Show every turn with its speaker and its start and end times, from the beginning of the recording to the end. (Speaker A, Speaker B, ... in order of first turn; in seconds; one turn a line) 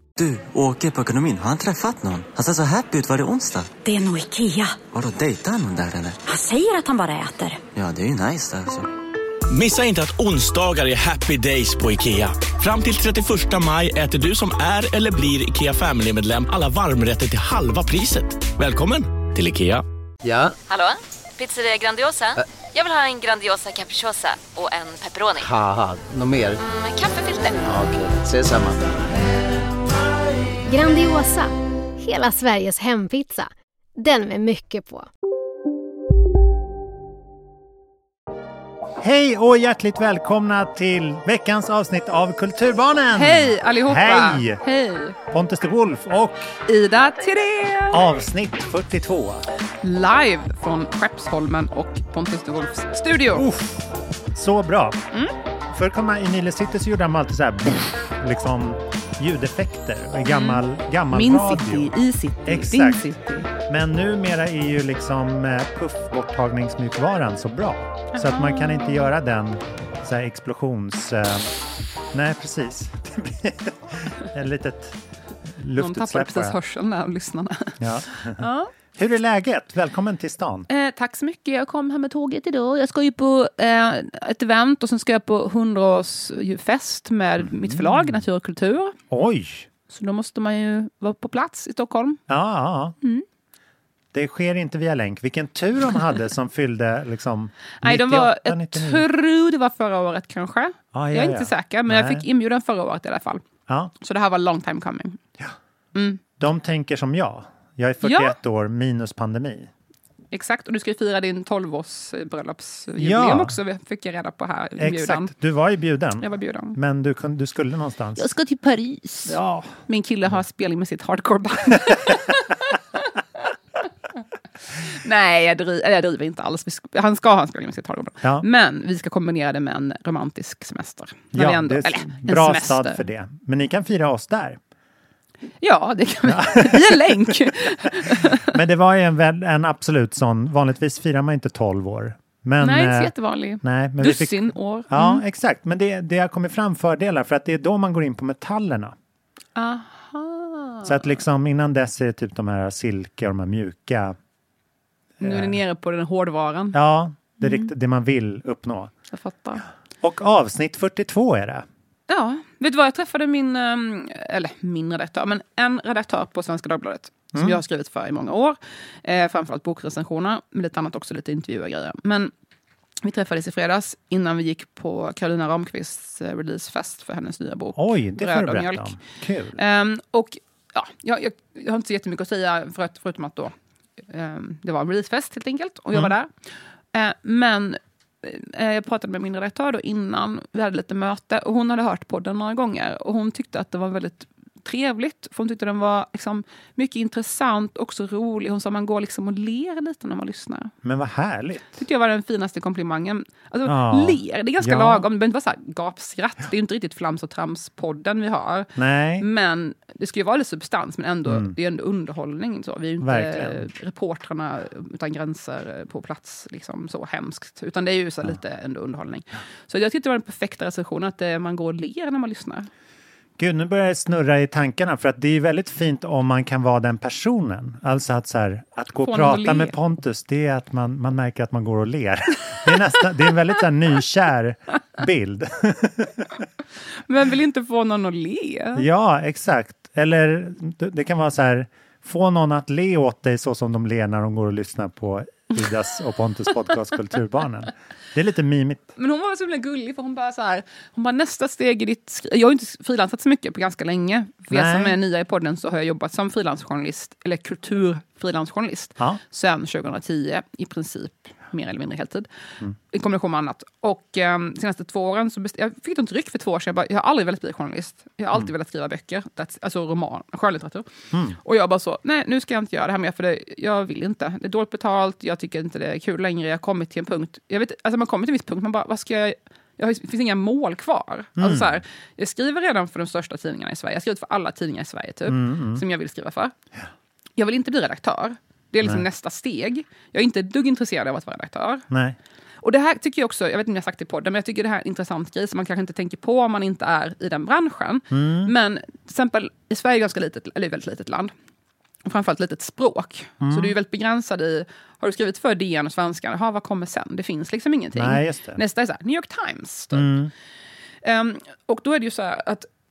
Speaker A: 0.2-3.7
Speaker B: 3.9-4.7
Speaker A: 4.8-6.2
Speaker B: 6.3-7.6
Speaker A: 7.7-8.9
Speaker C: 9.5-19.8
Speaker D: 20.2-20.5
Speaker E: 20.7-25.4
Speaker D: 25.4-26.6
Speaker E: 26.6-27.6
Speaker D: 27.6-28.8
Speaker F: 30.7-35.1
Speaker G: 39.0-44.6
Speaker H: 43.1-45.1
Speaker G: 45.3-46.5
Speaker H: 46.7-48.0
Speaker G: 47.9-49.5
Speaker H: 49.8-53.5
Speaker G: 53.3-55.0
Speaker G: 55.7-61.9
Speaker H: 60.2-63.5
Speaker G: 62.5-71.5
Speaker H: 68.1-69.1
Speaker G: 72.1-76.6
Speaker H: 75.8-78.7
Speaker G: 77.8-78.4
Speaker G: 78.9-80.7
Speaker H: 80.7-88.9
Speaker G: 87.4-88.2
Speaker G: 89.1-89.7
Speaker H: 89.9-92.2
Speaker G: 92.3-93.0
Speaker G: 94.1-99.0
Speaker H: 97.8-103.4
Speaker G: 100.9-102.2
Speaker H: 104.0-105.2
Speaker H: 105.9-106.2
Speaker G: 106.4-109.7
Speaker H: 108.0-108.4
Speaker H: 110.3-115.3
Speaker G: 113.0-113.5
Speaker G: 114.8-118.2
Speaker H: 116.2-116.8
Speaker H: 118.2-123.1
Speaker G: 119.2-119.8
Speaker H: 124.7-133.0
Speaker G: 131.3-134.6
Speaker H: 135.6-138.4
Speaker G: 136.2-148.9
Speaker H: 142.6-145.2
Speaker H: 149.6-151.2
Speaker G: 150.8-154.2
Speaker G: 155.2-155.6
Speaker H: 155.2-156.8
Speaker G: 156.7-158.9
Speaker H: 157.4-157.7
Speaker H: 159.1-159.6
Speaker G: 160.0-161.7
Speaker H: 162.1-172.3
Speaker G: 167.3-167.6
Speaker H: 173.0-178.9
Speaker G: 177.8-179.6
Speaker H: 179.6-183.5
Speaker H: 184.1-186.3
Speaker H: 186.9-200.7
Speaker G: 200.8-201.8
Speaker H: 201.8-222.7
Speaker G: 203.6-205.1
Speaker G: 208.8-209.3
Speaker G: 211.2-211.5
Speaker G: 213.0-213.7
Speaker G: 223.4-236.4
Speaker H: 229.0-229.7
Speaker H: 237.1-238.8
Speaker G: 238.8-248.9
Speaker H: 248.9-262.3
Speaker G: 254.5-255.0
Speaker H: 262.9-270.9
Speaker G: 271.1-271.4
Speaker H: 271.4-286.5
Speaker G: 281.4-281.8
Speaker G: 285.3-285.8
Speaker H: 287.4-291.9
Speaker G: 291.9-292.2
Speaker H: 292.6-301.3
Speaker G: 298.1-298.5
Speaker H: 302.0-310.1
Speaker G: 303.4-303.7
Speaker G: 307.9-308.6
Speaker G: 309.9-310.3
Speaker H: 311.0-312.7